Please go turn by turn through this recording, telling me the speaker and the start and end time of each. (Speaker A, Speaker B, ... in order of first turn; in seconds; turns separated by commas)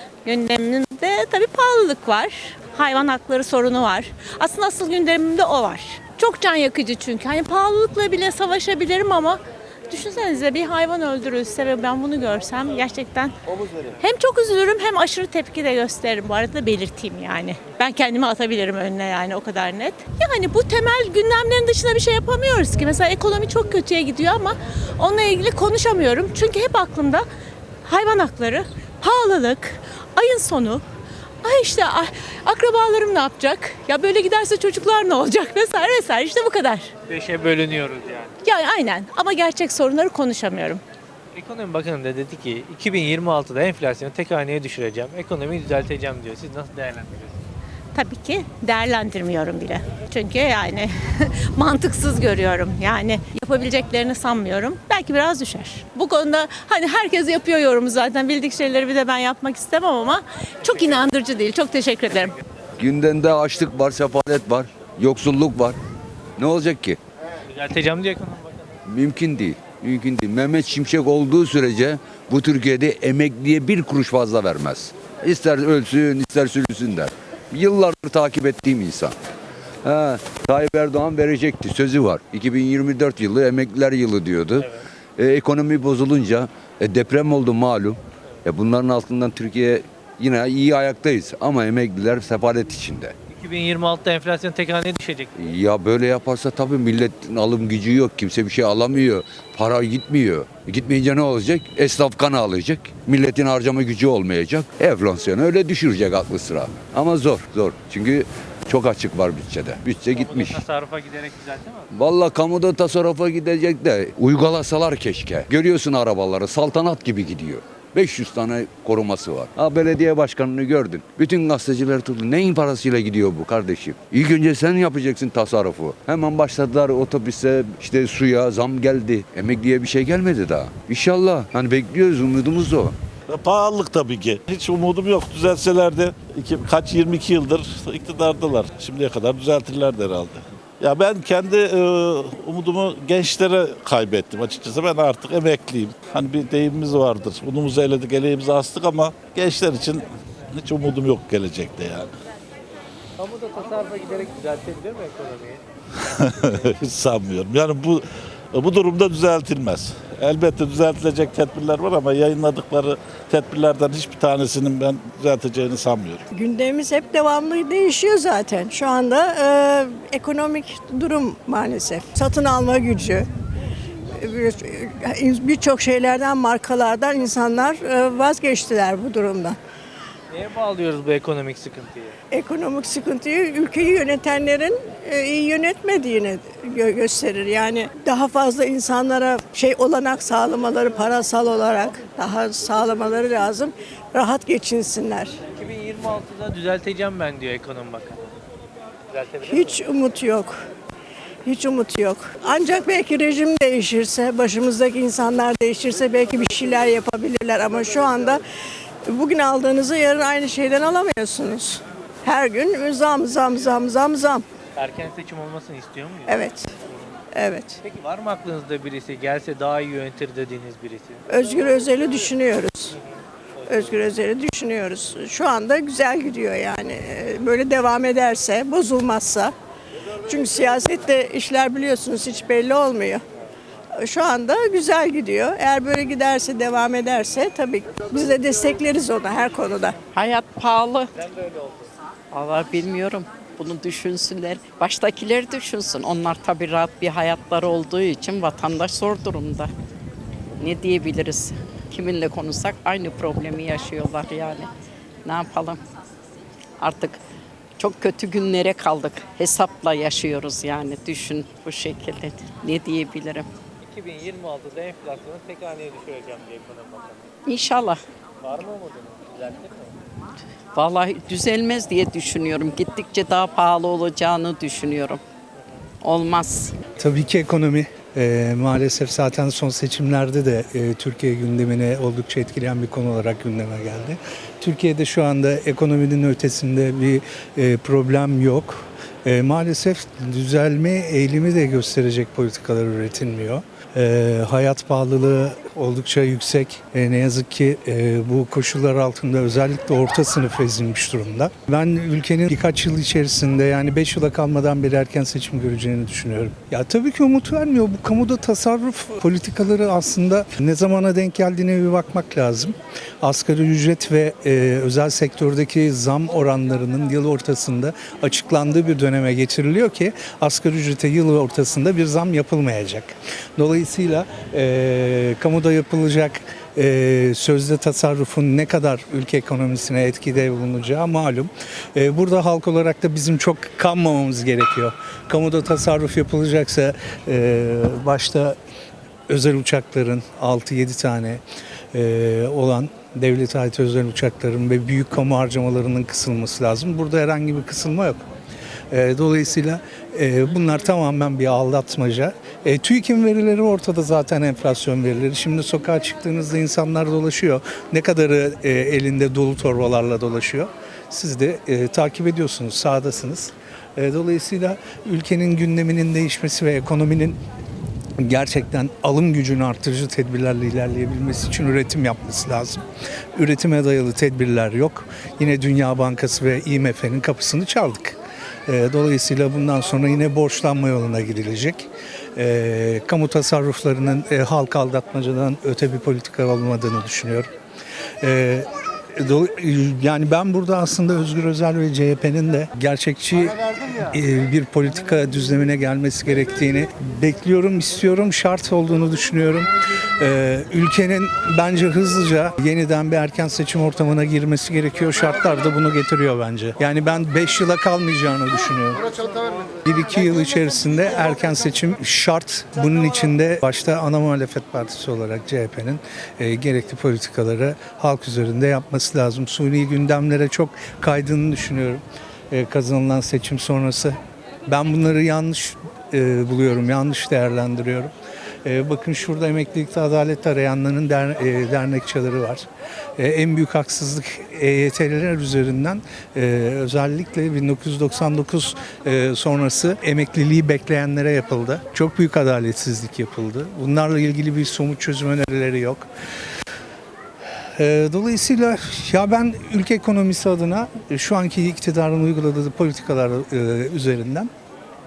Speaker A: 0.2-13.3, Speaker A: 14.0-27.2, Speaker A: 27.9-30.8, Speaker A: 31.4-36.9, Speaker B: 37.1-38.3, Speaker A: 38.4-40.8, Speaker B: 41.3-47.4, Speaker A: 47.9-62.4, Speaker C: 62.8-65.8, Speaker C: 66.4-67.0, Speaker B: 67.5-68.7, Speaker C: 68.8-79.2, Speaker C: 79.8-93.1, Speaker B: 93.3-95.3, Speaker C: 95.3-110.6, Speaker B: 110.1-111.9, Speaker C: 111.9-132.9, Speaker D: 133.3-152.1, Speaker B: 153.2-155.6, Speaker D: 156.2-158.0, Speaker D: 158.5-166.2, Speaker E: 166.3-173.3, Speaker E: 174.2-179.6, Speaker B: 180.3-182.1, Speaker E: 182.3-195.3, Speaker B: 195.5-198.2, Speaker B: 199.1-199.8, Speaker E: 199.5-200.6, Speaker E: 201.4-208.4, Speaker E: 209.1-214.4, Speaker B: 214.8-217.0, Speaker E: 216.3-216.7, Speaker E: 217.3-217.8, Speaker B: 217.8-221.2, Speaker E: 221.3-222.9, Speaker B: 223.7-224.1, Speaker E: 223.7-229.5, Speaker E: 230.3-233.2, Speaker E: 234.0-239.9, Speaker F: 240.1-241.1, Speaker F: 242.3-249.7, Speaker F: 250.6-254.7, Speaker F: 255.2-255.8, Speaker F: 256.8-257.2, Speaker F: 257.8-263.5, Speaker B: 263.8-267.2, Speaker F: 267.4-268.0, Speaker B: 268.4-269.9, Speaker F: 270.7-275.2, Speaker F: 276.0-276.8, Speaker G: 277.0-338.6, Speaker G: 339.3-341.4, Speaker G: 341.9-348.2, Speaker G: 348.9-367.4, Speaker G: 368.2-372.8, Speaker G: 373.4-378.1, Speaker G: 378.7-387.5, Speaker G: 388.2-393.5, Speaker G: 394.1-409.0, Speaker G: 409.8-428.1, Speaker G: 428.6-432.6, Speaker G: 433.2-446.1, Speaker G: 447.8-454.5